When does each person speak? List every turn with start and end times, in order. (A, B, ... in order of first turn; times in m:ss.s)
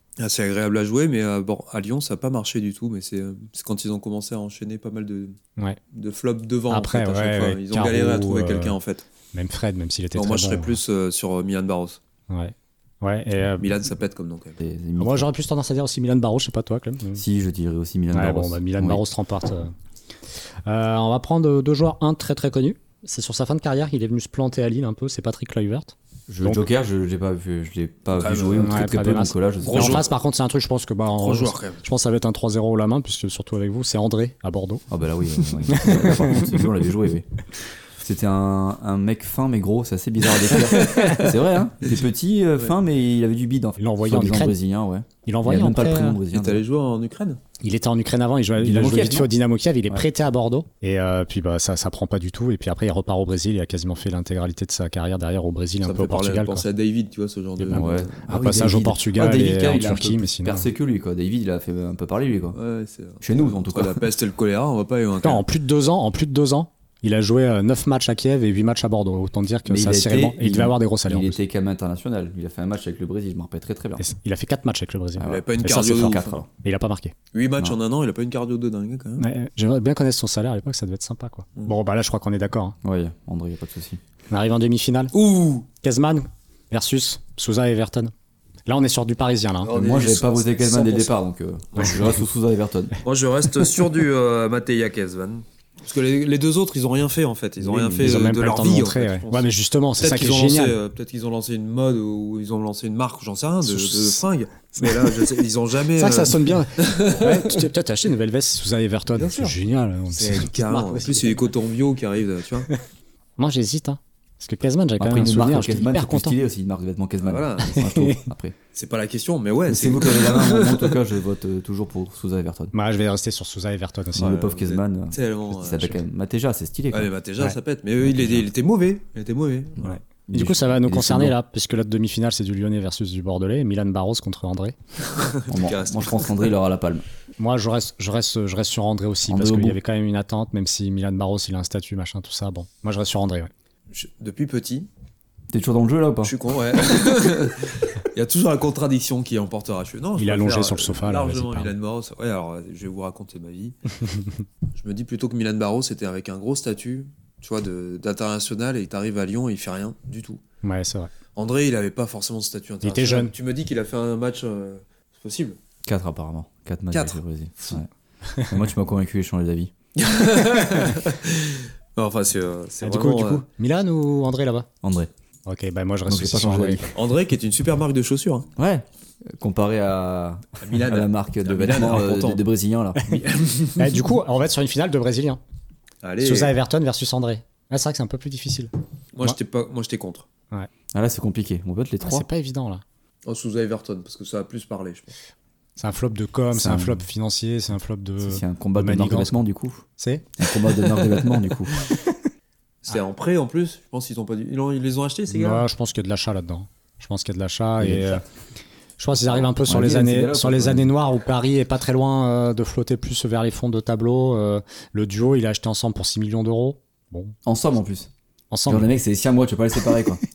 0:00.2-0:05.4 A
0:05.9-0:09.0 A
0:06.7-0:08.8 B
0:09.3-0:10.8 B
0:10.1-0:12.0 A
0:12.3-0:13.7 B
0:13.6-0:14.6 A
0:14.6-0:15.3 C
0:15.0-0:17.2 B
0:17.2-0:19.0 C
0:18.1-0:19.7 B
0:20.6-0:26.6 B
0:26.3-0:30.0 C
0:28.2-0:28.8 A
0:28.6-0:34.8 B
0:29.6-0:30.1 A
0:31.2-0:31.8 A
0:34.9-0:37.3 C
0:35.6-0:36.6 B
0:38.0-0:46.6 C
0:40.6-0:41.4 A
0:40.8-0:41.2 B
0:43.8-0:44.5 B
0:45.2-0:46.2 B
0:46.3-0:47.4 A
0:47.6-0:56.6 B
0:48.6-0:49.3 C
0:55.8-0:58.2 A
0:57.6-1:00.7 B
0:57.7-1:02.6 C
1:02.5-1:05.4 A
1:03.2-1:04.0 C
1:05.2-1:11.4 B
1:09.6-1:14.0 C
1:14.0-1:17.1 B
1:15.2-1:16.5 C
1:15.2-1:16.3 A
1:17.3-1:19.2 A
1:19.2-1:22.8 B
1:22.8-1:24.0 C
1:24.3-1:25.1 B
1:25.1-1:25.7 A
1:25.8-1:28.1 B
1:28.7-1:29.7 B
1:29.6-1:30.5 A
1:29.7-1:33.0 C
1:30.6-1:31.0 B
1:31.7-1:32.0 A
1:31.8-1:32.1 B
1:33.0-1:47.7 A
1:37.6-1:38.2 C
1:38.0-1:40.8 B
1:43.6-1:44.2 B
1:44.8-1:45.2 B
1:46.0-1:51.2 B
1:49.1-1:49.6 A
1:50.1-1:52.7 A
1:50.6-1:51.2 C
1:53.4-1:56.4 B
1:55.0-1:58.6 C
1:57.2-1:57.8 A
1:57.6-1:58.2 B
1:58.7-2:01.0 A
1:59.7-2:02.7 C
2:02.7-2:04.4 B
2:04.1-2:07.1 C
2:04.2-2:06.0 A
2:06.9-2:10.0 A
2:08.1-2:08.4 C
2:09.8-2:14.7 B
2:10.3-2:11.3 C
2:15.1-2:16.5 A
2:15.5-2:17.0 C
2:17.4-2:23.5 B
2:19.3-2:19.8 C
2:23.9-2:24.9 A
2:25.5-2:26.3 C
2:26.2-2:33.8 A
2:30.2-2:31.7 B
2:34.7-2:40.4 A
2:40.6-2:41.1 B
2:41.3-2:45.6 A
2:42.8-2:43.3 B
2:45.8-2:47.9 C
2:46.9-2:47.8 A
2:48.5-2:49.7 C
2:50.0-2:53.4 A
2:52.8-2:54.7 B
2:54.8-2:55.1 C
2:55.4-2:57.0 B
2:56.1-2:56.9 C
2:56.9-2:58.5 A
2:58.6-3:03.2 C
3:00.6-3:02.4 A
3:03.1-3:04.0 A
3:03.8-3:05.4 B
3:06.0-3:06.5 A
3:06.2-3:08.7 B
3:09.1-3:10.2 A
3:10.9-3:12.3 C
3:12.0-3:12.8 B
3:13.2-3:15.2 A
3:15.8-3:19.4 B
3:16.5-3:17.0 C
3:18.2-3:19.8 C
3:20.0-3:21.3 B
3:20.4-3:21.9 C
3:22.8-3:25.6 A
3:25.3-3:28.2 B
3:27.8-3:28.2 C
3:29.0-3:37.4 B
3:29.6-3:30.9 C
3:37.4-3:38.1 C
3:38.5-3:38.9 B
3:38.7-3:40.2 C